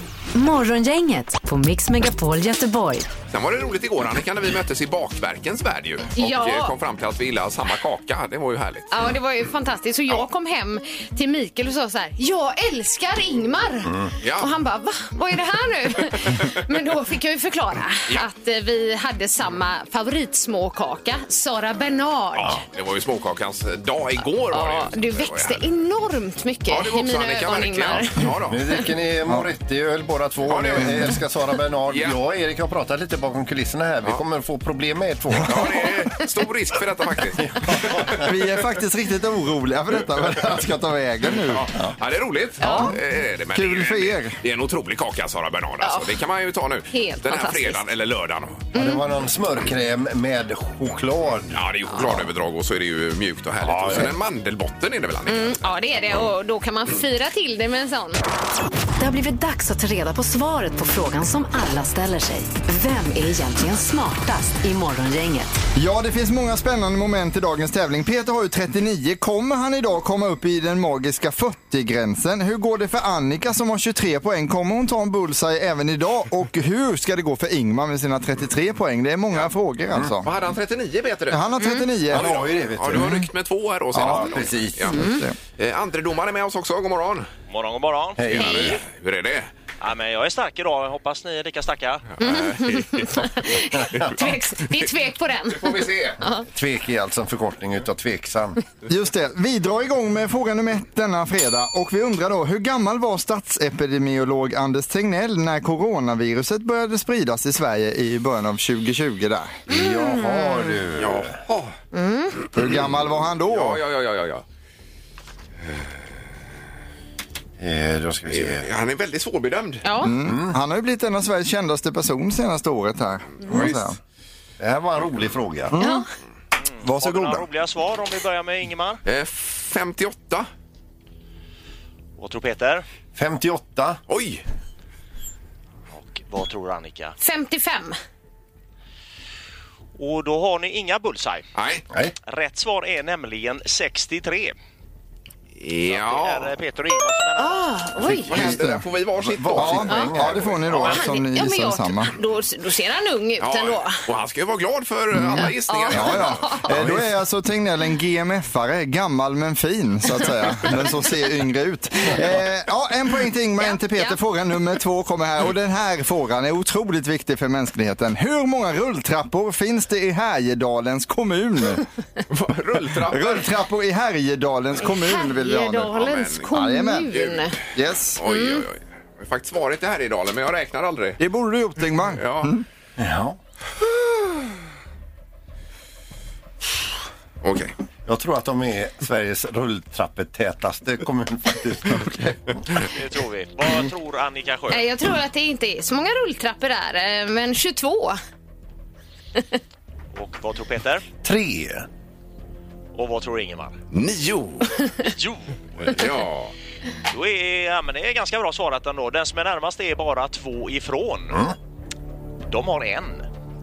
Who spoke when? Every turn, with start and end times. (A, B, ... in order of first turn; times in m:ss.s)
0:00.3-0:03.1 A
0:03.3-0:08.9 B
0:06.2-0:06.7 C
0:08.9-0:22.6 C
0:13.8-0:14.1 D
0:14.2-0:14.5 B
0:16.2-0:16.5 B
0:22.4-0:25.6 B
0:24.5-0:28.3 C
0:26.7-0:28.6 B
0:28.5-0:35.8 D
0:30.5-0:31.1 B
0:30.8-0:31.1 E
0:31.9-0:32.2 B
0:35.4-0:38.2 B
0:37.6-0:38.3 D
0:38.2-0:41.7 E
0:41.5-0:48.7 B
0:42.6-0:42.9 C
0:42.6-0:43.0 E
0:43.5-0:44.4 E
0:45.8-0:46.1 C
0:46.9-0:47.8 C
0:48.7-0:52.2 D
0:48.7-0:49.0 C
0:51.5-0:55.7 B
0:53.6-0:54.1 D
0:55.3-0:58.2 C
0:59.0-1:05.5 A
1:05.7-1:20.3 E
1:20.2-1:21.4 B
1:21.3-1:22.4 E
1:21.6-1:21.9 C
1:22.1-1:23.2 D
1:22.1-1:25.0 B
1:22.9-1:23.3 E
1:23.9-1:24.3 E
1:23.9-1:24.9 D
1:24.9-1:25.3 E
1:24.9-1:25.2 C
1:25.6-1:27.3 B
1:27.5-1:28.2 F
1:28.2-1:28.8 D
1:28.3-1:29.5 B
1:28.3-1:28.8 C
1:29.8-1:32.1 F
1:32.2-1:33.3 B
1:32.2-1:36.4 C
1:33.8-1:34.1 D
1:35.6-1:36.2 B
1:36.5-1:38.6 D
1:38.9-1:49.6 E
1:49.7-1:51.4 D
1:49.7-1:50.4 C
1:51.0-1:51.7 B
1:51.9-1:52.3 C
1:52.4-1:54.4 B
1:52.5-1:53.8 E
1:57.6-1:58.6 D
1:58.3-1:59.8 B
1:59.8-2:00.1 C
2:00.0-2:04.0 E
2:00.2-2:00.6 D
2:03.5-2:03.8 D
2:04.6-2:05.8 D
2:05.7-2:06.0 E
2:05.8-2:06.1 C
2:06.6-2:09.0 F
2:06.8-2:07.4 E
2:09.0-2:10.5 B
2:12.2-2:12.8 F
2:13.1-2:14.0 D
2:14.1-2:14.4 B
2:15.9-2:17.2 F
2:17.2-2:18.0 C
2:20.0-2:21.5 F
2:21.5-2:21.8 B
2:22.2-2:24.5 F
2:25.6-2:26.5 B
2:25.9-2:27.8 F
2:27.4-2:28.3 C
2:28.2-2:28.8 E
2:28.3-2:29.9 B
2:28.3-2:31.0 D
2:29.5-2:32.1 E
2:29.9-2:30.1 C
2:30.7-2:34.0 C
2:33.4-2:36.5 B
2:35.2-2:51.8 E
2:35.6-2:36.7 C
2:36.7-2:37.0 D
2:43.6-2:44.2 C
2:52.3-2:53.5 B
2:53.0-2:55.9 E
2:54.8-2:57.6 C
2:55.9-2:56.5 B
2:56.5-2:57.2 E
2:57.1-2:57.5 B
2:57.7-2:58.2 E
2:58.2-3:01.2 B
2:58.2-2:58.6 C
3:01.2-3:02.6 E
3:02.2-3:02.5 B
3:03.0-3:03.4 D
3:07.4-3:07.7 B
3:08.0-3:12.4 D
3:12.9-3:14.8 F
3:14.7-3:18.2 C
3:20.1-3:21.0 F
3:21.2-3:21.8 D
3:22.9-3:23.8 F
3:23.9-3:24.7 B
3:25.0-3:26.0 F
3:25.8-3:26.5 B
3:27.1-3:31.4 F
3:32.5-3:33.3 F